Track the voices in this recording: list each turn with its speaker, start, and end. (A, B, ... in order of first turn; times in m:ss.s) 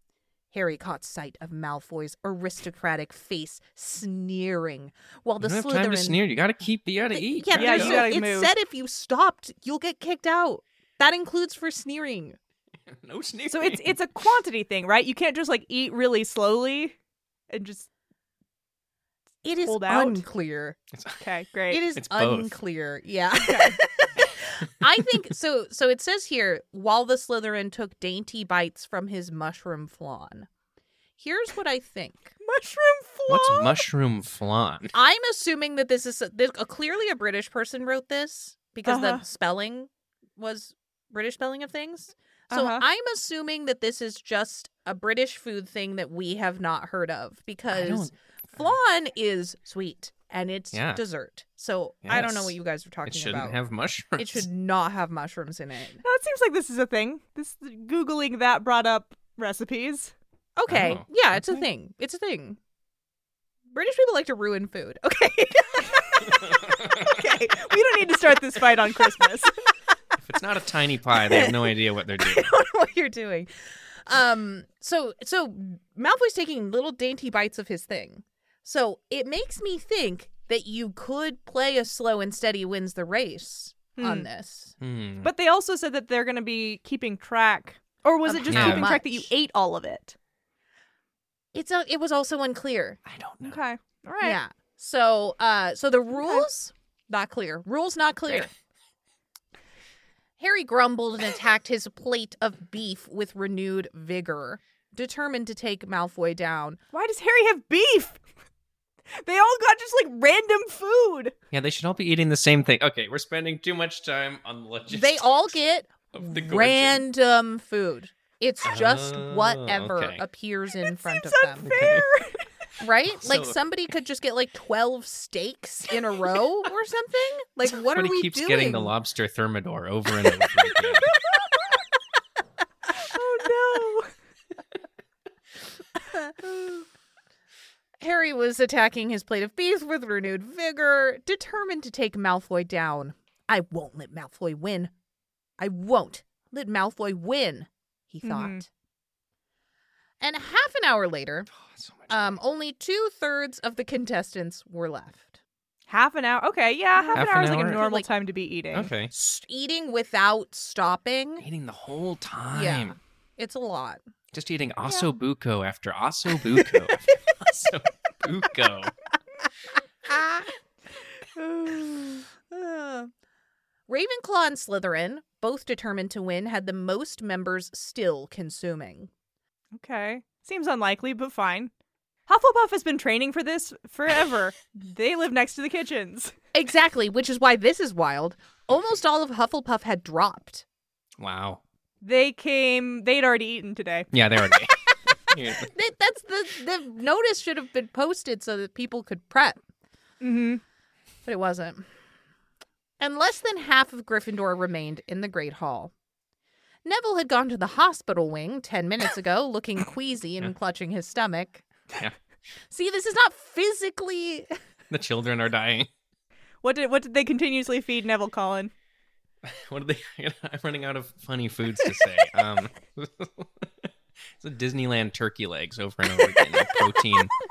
0:00.5-0:06.2 A
0:05.4-0:08.1 B
0:07.1-0:12.4 A
0:07.5-0:08.5 C
0:12.9-0:14.0 B
0:13.5-0:17.0 C
0:17.5-0:17.9 C
0:19.4-0:20.8 A
0:19.6-0:20.2 C
0:20.9-0:21.2 B
0:21.2-0:21.8 C
0:21.7-0:30.5 A
0:22.0-0:22.6 B
0:23.4-0:23.8 C
0:31.2-0:32.3 A
0:32.4-0:33.8 C
0:33.3-0:34.9 B
0:34.9-0:53.6 A
0:38.9-0:39.2 C
0:42.5-0:42.8 C
0:47.7-0:48.7 B
0:50.7-0:51.0 B
0:52.0-0:54.5 B
0:54.2-0:56.0 A
0:56.0-1:00.1 C
1:00.6-1:02.6 A
1:00.7-1:01.1 B
1:03.7-1:06.4 A
1:06.3-1:07.1 B
1:07.1-1:09.6 C
1:07.2-1:07.5 A
1:10.2-1:12.5 B
1:11.1-1:24.7 A
1:24.0-1:24.3 C
1:24.8-1:25.3 B
1:25.2-1:30.2 C
1:28.2-1:29.3 A
1:28.5-1:28.9 B
1:31.5-1:33.0 A
1:33.0-1:33.6 B
1:33.4-1:34.4 C
1:34.2-1:38.5 A
1:40.4-1:46.8 A
1:46.9-1:48.2 C
1:49.2-1:51.3 C
1:51.5-1:55.5 B
1:54.9-2:01.7 A
1:56.1-1:57.0 B
1:58.6-2:00.2 B
2:00.8-2:02.4 C
2:01.6-2:02.1 B
2:02.8-2:08.9 A
2:03.1-2:03.6 B
2:07.8-2:11.1 B
2:13.0-2:14.1 C
2:18.0-2:24.9 A
2:25.6-2:28.7 A
2:28.2-2:28.6 C
2:30.2-2:31.5 A
2:31.5-2:32.4 B
2:32.1-2:35.4 A
2:35.9-2:38.9 C
2:37.0-2:38.1 A
2:37.2-2:37.8 B
2:38.7-2:39.1 B
2:39.1-2:41.5 A
2:41.4-2:43.0 B
2:42.5-2:44.0 A
2:44.3-2:48.9 B
2:50.0-2:50.5 A
2:51.4-2:52.2 C
2:52.3-2:53.1 A
2:53.9-2:59.1 A
2:59.7-3:01.7 C
3:02.3-3:06.3 C
3:06.5-3:10.6 A
3:11.2-3:11.6 B
3:12.0-3:14.1 C
3:14.1-3:15.7 B
3:15.6-3:19.6 A
3:20.2-3:20.6 C
3:21.2-3:21.9 A
3:23.0-3:25.9 A
3:26.8-3:31.6 A
3:32.7-3:34.5 A
3:34.9-3:35.9 B
3:36.6-3:38.7 C
3:39.4-3:47.3 B